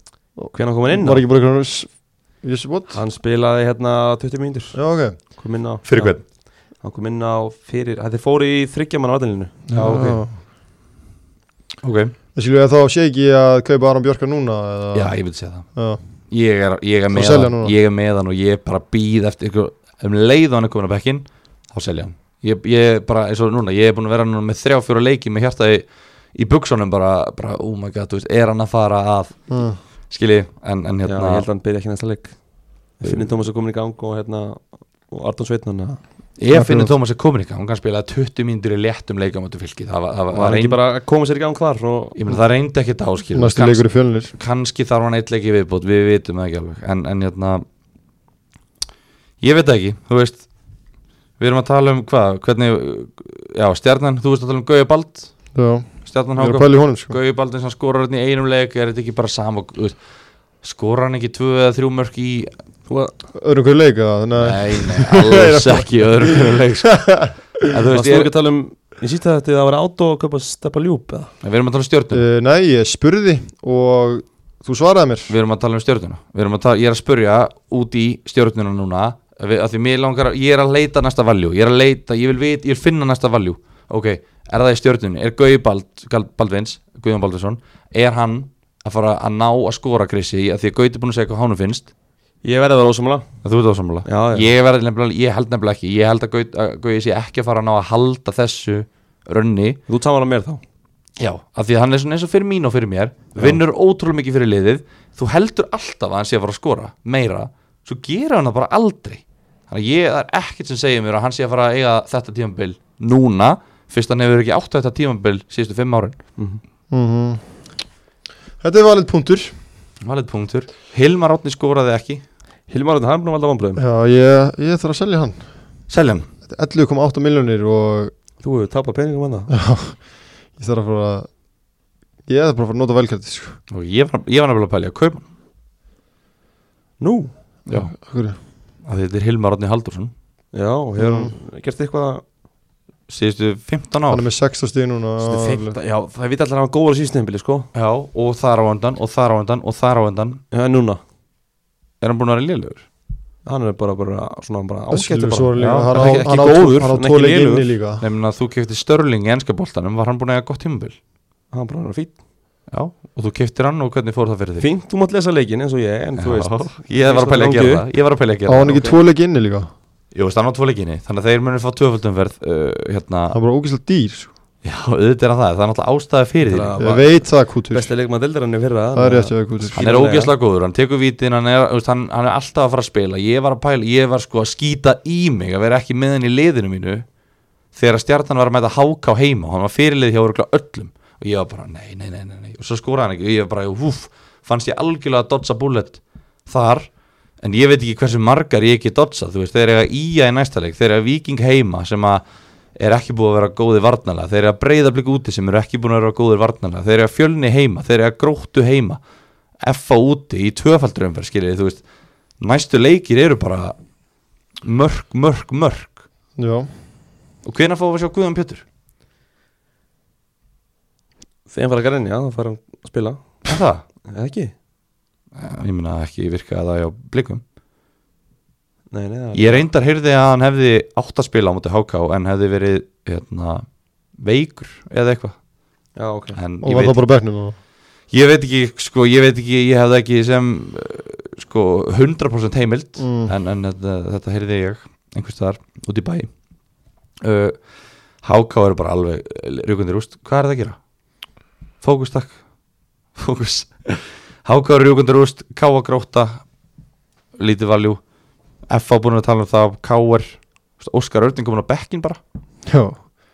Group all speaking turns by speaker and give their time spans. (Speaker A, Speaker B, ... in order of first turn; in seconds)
Speaker A: 0.4-3.0, 4.7-5.2, 9.7-10.4, 12.3-15.1, 17.1-17.7, 29.5-29.8, 36.5-36.9, 43.3-44.3, 55.5-57.2, 63.3-67.7, 72.1-75.3, 116.9-117.4, 118.6-119.5, 123.8-125.4, 126.5-128.1, 129.5-130.0, 130.6-131.3, 132.2-133.6, 137.7-138.4, 141.0-141.3, 144.1-145.8, 154.9-158.0, 168.4-169.7, 173.3-174.3, 176.8-177.9, 178.9-179.8, 216.4-216.7, 236.6-237.6, 243.0-243.3, 262.6-263.1
Speaker B: 0.5-1.2, 2.9-6.2, 6.8-10.0, 31.0-32.4, 33.0-36.0, 40.3-42.1, 62.9-63.1, 67.9-71.3, 92.4-93.2, 94.0-94.5, 99.9-100.6, 122.7-123.8, 128.4-129.5, 137.0-137.3, 140.5-142.2, 145.2-147.7, 150.5-151.0, 153.4-157.7, 161.5-162.2, 164.6-167.8, 168.7-168.9, 176.4-180.3, 221.5-223.2, 224.1-224.5, 228.9-229.7, 236.0-236.4
Speaker C: 5.8-6.2, 9.7-10.2, 11.8-12.1, 14.9-15.7, 16.3-29.5, 30.1-31.5, 36.4-40.8, 42.1-47.6, 49.4-50.4, 51.4-55.3, 56.0-60.0, 60.6-62.5, 64.4-68.3, 71.4-72.2, 75.3-91.9, 93.4-99.8, 101.2-116.2, 120.0-122.2, 125.9-126.3, 133.7-135.2, 137.7-137.9, 138.8-140.1, 143.1-144.2, 147.7-150.4, 152.0-152.8, 155.6-156.2, 158.0-160.9, 162.7-164.7, 166.2-168.9, 170.1-173.4, 174.6-176.8, 179.7-187.0, 187.7-196.9, 197.4-202.2, 202.8-209.0, 209.6-211.8, 212.4-213.7, 214.6-216.0, 217.4-218.6, 223.4-223.8, 225.3-227.4, 229.3-233.6, 234.2-235.3, 236.3-237.0, 238.1-246.3, 247.2-247.6, 248.2-250.8, 251.8-252.3, 253.2-256.4, 257.4-258.0, 258.7-262.2